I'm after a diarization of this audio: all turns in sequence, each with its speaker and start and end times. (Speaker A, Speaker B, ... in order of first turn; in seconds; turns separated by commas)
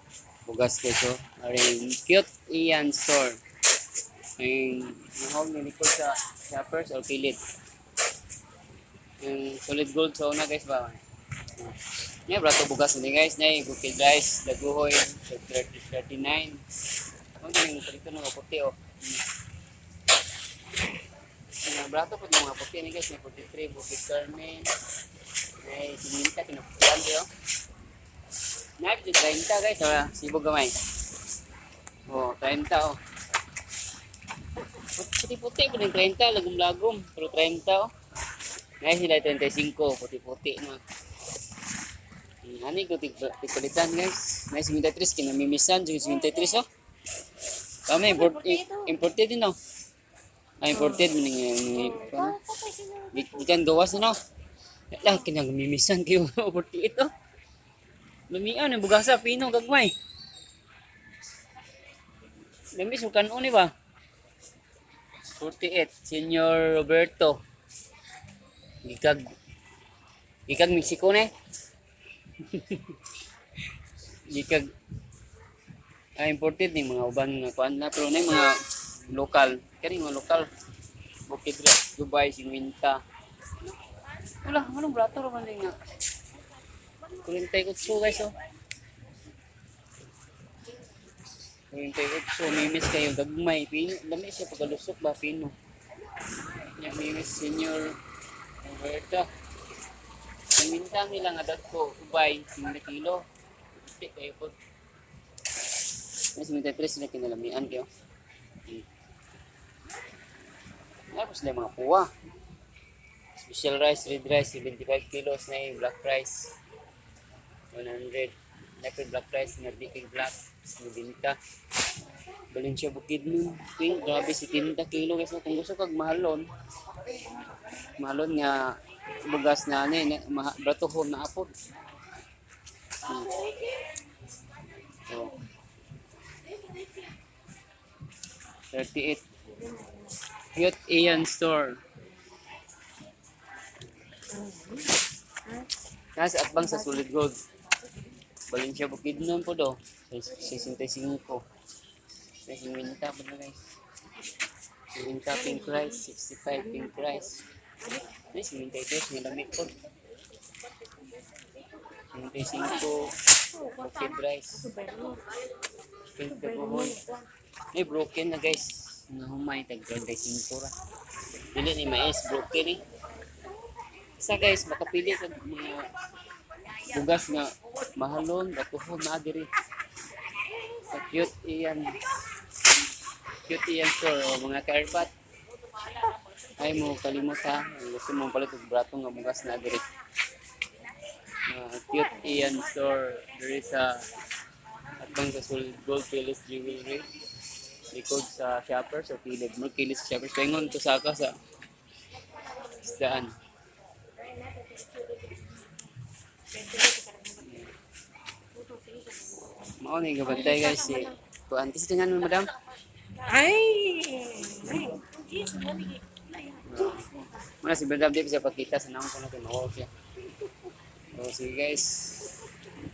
Speaker A: 0.5-3.4, Speaker A: 4.4-7.4, Speaker A: 9.2-11.0, Speaker A: 11.6-16.6, Speaker A: 17.4-19.2, Speaker A: 21.6-24.7, Speaker A: 25.6-27.3, Speaker A: 28.8-30.8, Speaker A: 32.1-33.0, Speaker A: 34.6-37.9, Speaker A: 38.8-40.8, Speaker A: 42.4-46.6, Speaker A: 47.9-49.6, Speaker B: 48.4-48.8, Speaker A: 50.6-52.4, Speaker B: 52.4-53.1, Speaker A: 53.1-54.2, Speaker A: 54.9-57.1, Speaker A: 58.3-59.9, Speaker A: 62.8-63.7, Speaker A: 65.3-67.4, Speaker A: 68.8-69.2, Speaker A: 70.5-71.3, Speaker A: 72.4-73.0, Speaker A: 74.3-74.7, Speaker A: 76.2-80.5, Speaker A: 81.3-83.0, Speaker A: 84.4-85.7, Speaker A: 87.1-88.3, Speaker A: 91.7-95.5, Speaker A: 96.6-98.0, Speaker A: 98.6-99.3, Speaker A: 100.5-103.2, Speaker A: 103.8-104.5, Speaker A: 106.3-107.9, Speaker A: 111.1-112.1, Speaker A: 113.4-116.5, Speaker A: 117.7-121.3, Speaker A: 122.5-126.5, Speaker A: 128.0-131.5, Speaker A: 133.0-133.4, Speaker A: 135.1-135.4, Speaker A: 138.7-139.2, Speaker A: 140.5-141.8, Speaker B: 144.4-144.8, Speaker A: 146.2-147.4, Speaker A: 148.5-151.4, Speaker A: 152.4-153.7, Speaker A: 154.9-159.8, Speaker A: 162.1-164.8, Speaker B: 164.7-165.2, Speaker A: 166.1-167.0, Speaker A: 167.7-170.7, Speaker A: 171.4-172.8, Speaker A: 174.2-175.9, Speaker A: 176.8-179.5, Speaker A: 180.7-182.2, Speaker A: 183.4-185.1, Speaker A: 186.6-189.9, Speaker A: 191.5-194.1, Speaker A: 195.0-197.1, Speaker A: 197.9-201.4, Speaker A: 202.7-203.3, Speaker B: 204.4-205.7, Speaker B: 206.6-207.4, Speaker A: 207.4-207.7, Speaker B: 208.7-209.5, Speaker A: 209.8-212.5, Speaker B: 210.5-211.0, Speaker B: 213.2-216.7, Speaker A: 216.6-219.9, Speaker A: 221.1-222.5